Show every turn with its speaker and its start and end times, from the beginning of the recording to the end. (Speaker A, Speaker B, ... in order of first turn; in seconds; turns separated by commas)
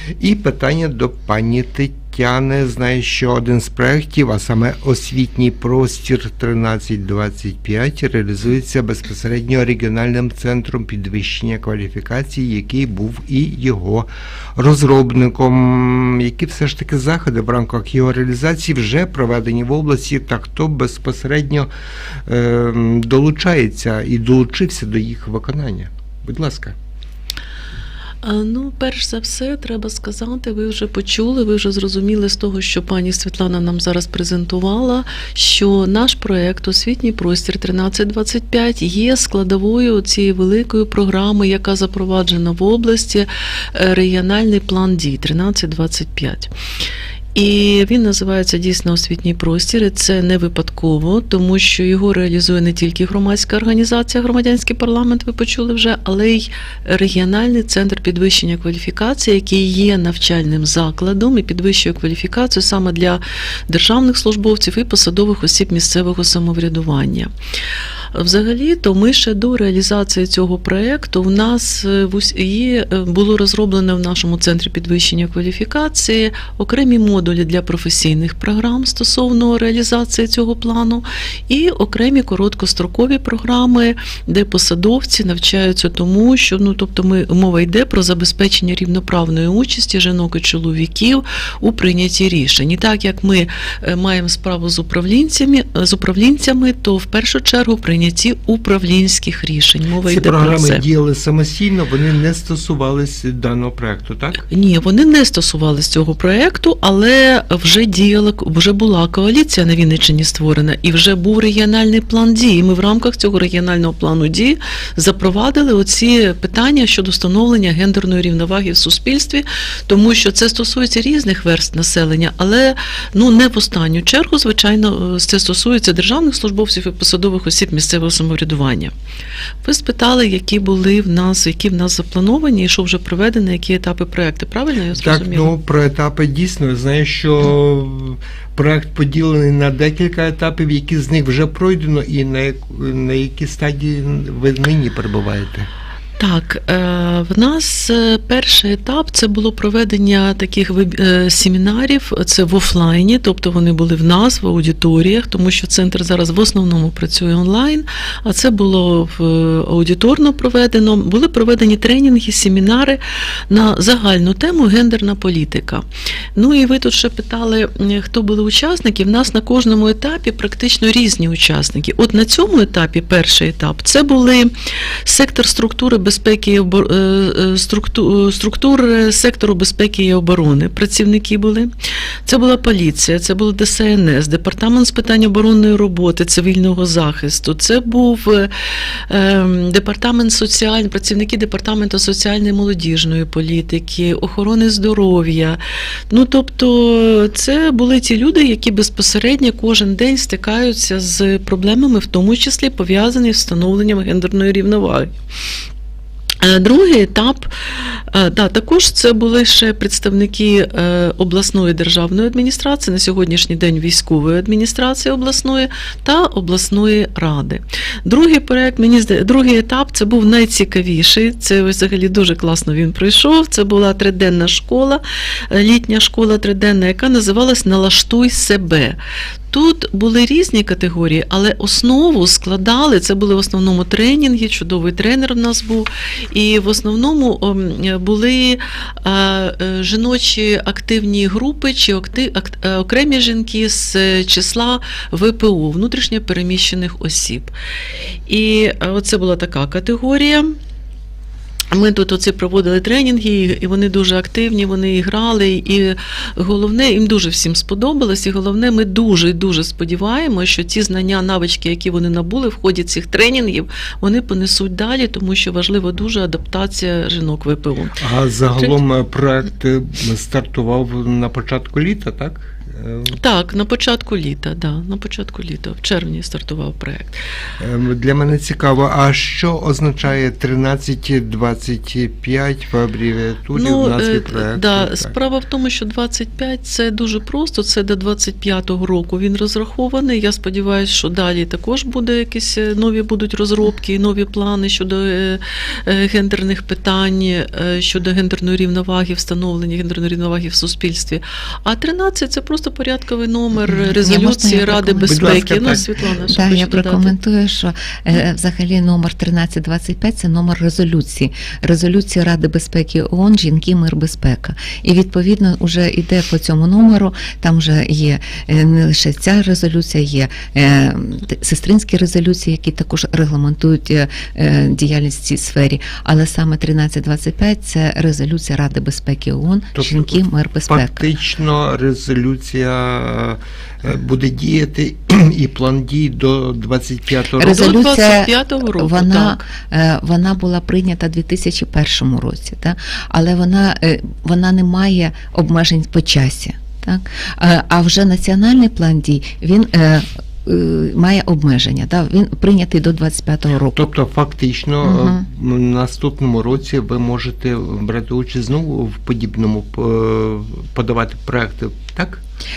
Speaker A: 0.2-21.7, Speaker A: 22.2-26.8, Speaker B: 28.2-46.5, Speaker B: 47.3-67.3, Speaker B: 68.1-100.8, Speaker A: 100.0-104.4, Speaker B: 104.5-128.9, Speaker B: 129.6-135.5, Speaker A: 134.9-145.7, Speaker B: 146.2-165.8, Speaker B: 166.3-174.5, Speaker B: 175.0-181.7, Speaker B: 182.2-188.5, Speaker B: 189.1-195.6, Speaker B: 196.1-205.1, Speaker B: 206.4-207.5, Speaker B: 208.1-229.0, Speaker B: 229.5-247.5, Speaker B: 248.3-250.6, Speaker B: 251.7-268.1, Speaker A: 268.0-273.2, Speaker B: 273.1-277.2, Speaker A: 277.6-285.1, Speaker B: 283.5-307.1, Speaker C: 303.7-331.1, Speaker A: 305.1-305.8, Speaker A: 329.7-337.8, Speaker B: 337.4-339.5, Speaker C: 337.4-353.9, Speaker A: 353.7-362.2, Speaker C: 354.8-355.2